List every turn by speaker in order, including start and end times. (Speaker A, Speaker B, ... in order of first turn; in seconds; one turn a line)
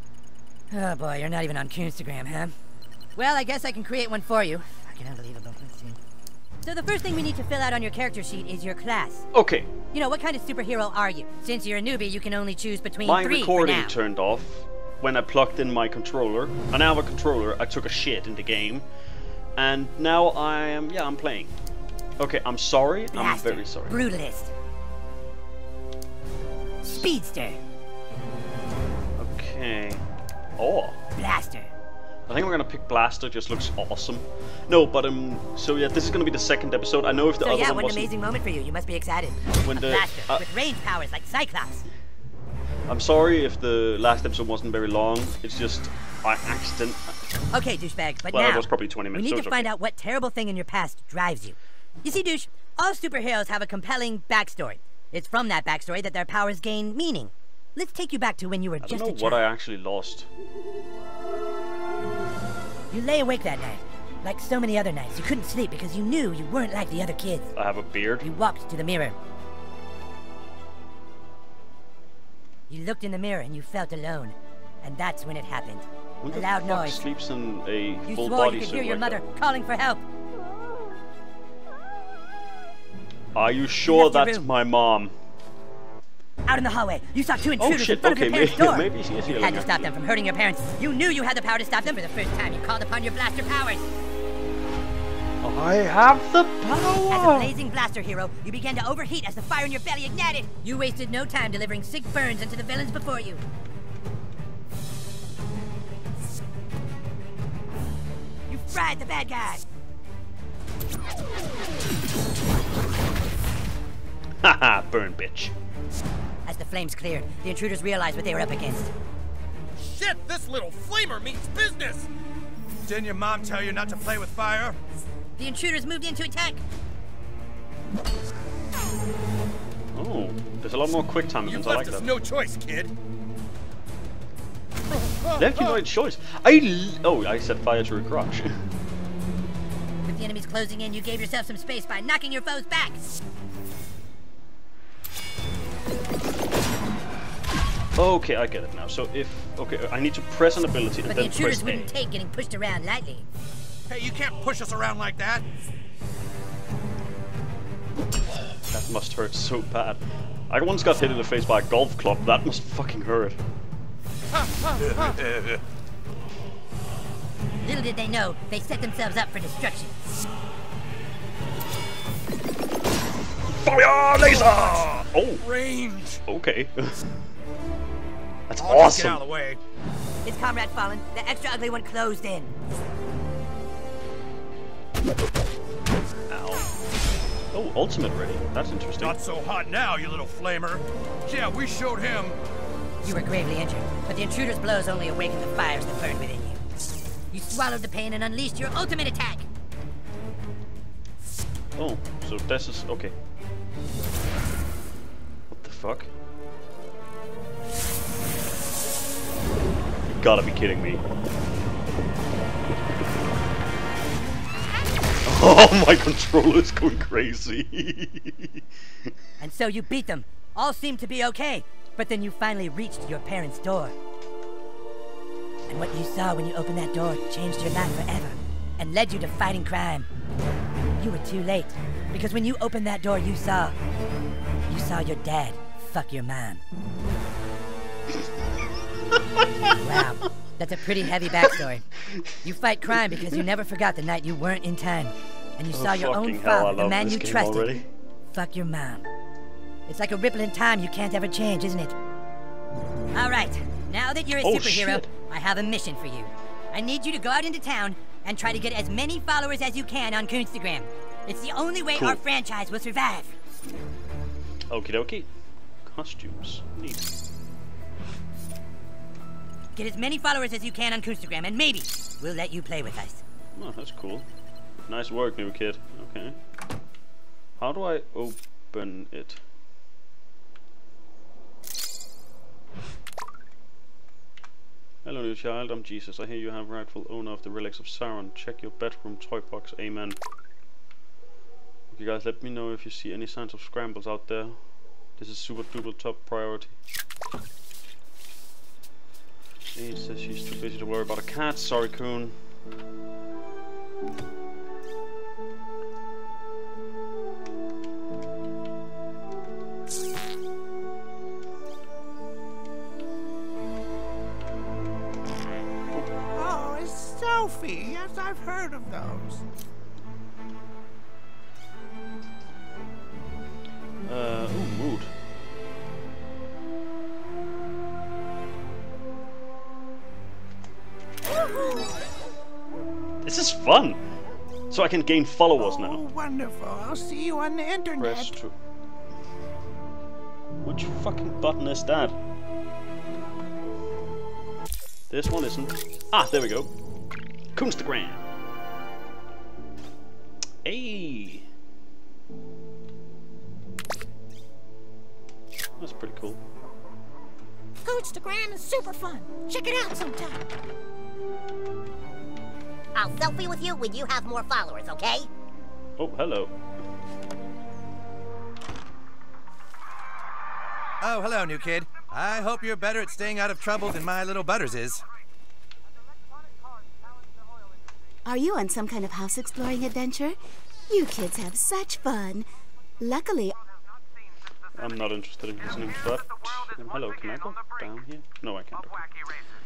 Speaker A: 0.7-2.5
Speaker A: 3.1-6.0
Speaker A: 6.6-9.3
Speaker B: 9.3-9.7
Speaker A: 9.9-13.9
Speaker B: 13.0-18.9
Speaker B: 19.6-21.5
Speaker B: 22.2-24.0
Speaker A: 23.1-24.5
Speaker A: 26.8-27.6
Speaker B: 29.1-30.0
Speaker B: 30.6-31.0
Speaker A: 31.1-31.7
Speaker B: 32.3-38.1
Speaker A: 37.4-41.8
Speaker B: 39.6-40.5
Speaker B: 42.9-47.2
Speaker A: 47.5-59.4
Speaker B: 48.3-49.7
Speaker B: 58.8-60.3
Speaker A: 62.9-67.5
Speaker B: 67.5-68.3
Speaker A: 68.2-69.2
Speaker A: 72.7-77.0
Speaker B: 76.2-79.2
Speaker A: 78.1-80.0
Speaker B: 83.3-85.1
Speaker A: 83.9-84.5
Speaker A: 86.5-93.8
Speaker B: 87.6-89.9
Speaker B: 95.4-97.5
Speaker A: 97.1-103.4
Speaker A: 108.5-109.6
Speaker B: 114.4-115.5
Speaker A: 116.5-118.9
Speaker C: 119.8-122.1
Speaker C: 122.8-124.8
Speaker A: 125.4-126.6
Speaker B: 129.9-132.1
Speaker C: 131.4-132.9
Speaker C: 134.9-135.8
Speaker B: 135.4-138.6
Speaker A: 140.1-143.0
Speaker B: 147.9-151.9
Speaker A: 151.1-153.2
Speaker C: 153.9-155.4
Speaker B: 158.7-163.4
Speaker C: 164.3-165.6
Speaker A: 167.6-169.9
Speaker B: 173.5-175.4
Speaker C: 174.2-176.2
Speaker B: 176.2-177.2
Speaker B: 178.5-179.2
Speaker C: 178.6-179.6
Speaker A: 180.2-182.5
Speaker B: 186.3-186.7
Speaker B: 187.5-189.2
Speaker C: 189.0-192.4
Speaker A: 193.0-196.6
Speaker A: 197.3-199.5
Speaker B: 201.8-203.1
Speaker B: 205.5-206.1
Speaker B: 210.1-211.0
Speaker B: 215.2-219.1
Speaker A: 219.4-223.9
Speaker A: 225.7-230.1
Speaker A: 231.0-233.8
Speaker A: 234.7-236.6
Speaker B: 239.1-240.0
Speaker A: 239.7-241.8
Speaker A: 242.4-247.7
Speaker B: 245.7-247.9
Speaker A: 248.3-249.1
Speaker A: 249.9-251.9
Speaker A: 253.1-263.3
Speaker B: 254.4-255.1
Speaker B: 261.9-262.2
Speaker B: 264.7-265.3
Speaker B: 265.8-267.1
Speaker A: 269.8-273.2
Speaker B: 273.5-274.3
Speaker B: 274.9-276.4
Speaker B: 277.6-279.4
Speaker B: 285.0-290.2
Speaker B: 291.9-294.6
Speaker B: 295.2-296.7
Speaker B: 299.7-302.4
Speaker D: 316.3-319.4
Speaker B: 324.1-325.1
Speaker B: 333.2-334.0
Speaker B: 334.7-336.0
Speaker D: 335.6-338.4
Speaker B: 338.0-338.5
Speaker B: 340.6-342.1
Speaker B: 345.1-346.7
Speaker B: 347.5-348.3
Speaker B: 350.6-351.4
Speaker B: 355.8-356.4
Speaker E: 357.8-360.4
Speaker F: 362.9-365.3
Speaker B: 366.0-366.5
Speaker C: 371.0-375.0
Speaker G: 378.2-382.5
Speaker G: 383.0-383.5
Speaker B: 384.7-389.1